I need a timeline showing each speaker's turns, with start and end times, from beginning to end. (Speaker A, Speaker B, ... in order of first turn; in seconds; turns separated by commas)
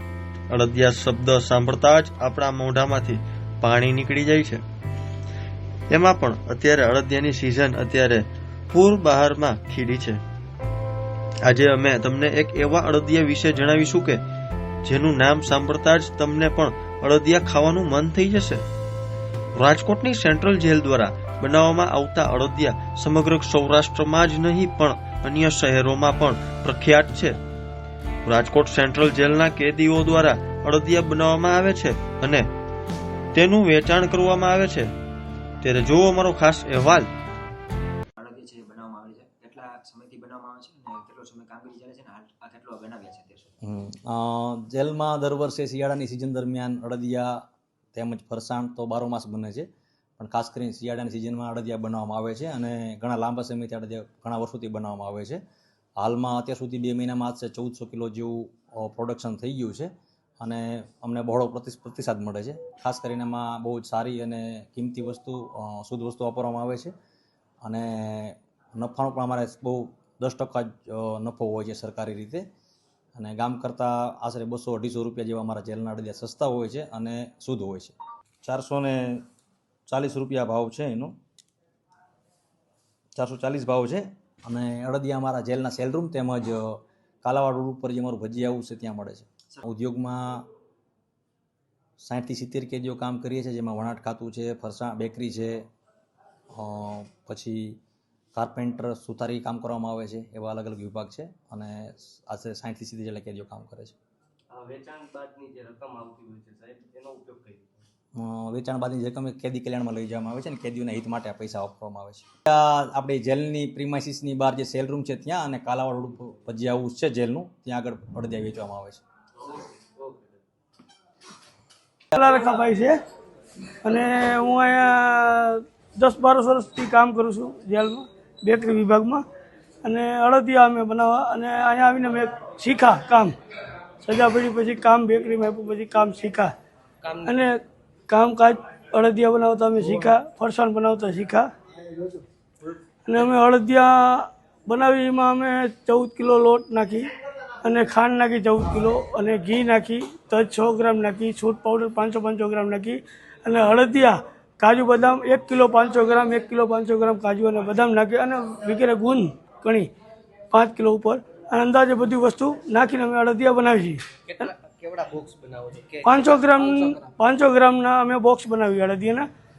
Speaker A: 0.5-4.6, Speaker A: 5.9-10.2, Speaker A: 11.4-14.2, Speaker A: 14.8-18.6, Speaker A: 19.6-27.4, Speaker A: 28.2-32.5, Speaker A: 33.3-34.9, Speaker A: 35.6-37.1, Speaker B: 38.2-43.5, Speaker C: 43.6-55.4, Speaker C: 56.0-66.9, Speaker C: 67.6-72.5, Speaker C: 73.2-79.2, Speaker C: 79.9-81.2, Speaker C: 83.2-90.5, Speaker C: 92.0-95.7, Speaker C: 96.5-97.8, Speaker C: 98.3-104.0, Speaker D: 104.5-107.8, Speaker C: 108.2-119.0, Speaker D: 120.0-120.3, Speaker E: 122.1-123.0, Speaker E: 123.8-129.2, Speaker E: 129.8-133.3, Speaker E: 134.0-136.5, Speaker D: 137.0-137.3, Speaker E: 137.2-142.2, Speaker E: 143.1-147.1, Speaker E: 147.6-159.9, Speaker E: 160.5-164.1, Speaker D: 164.3-167.2, Speaker E: 166.0-169.3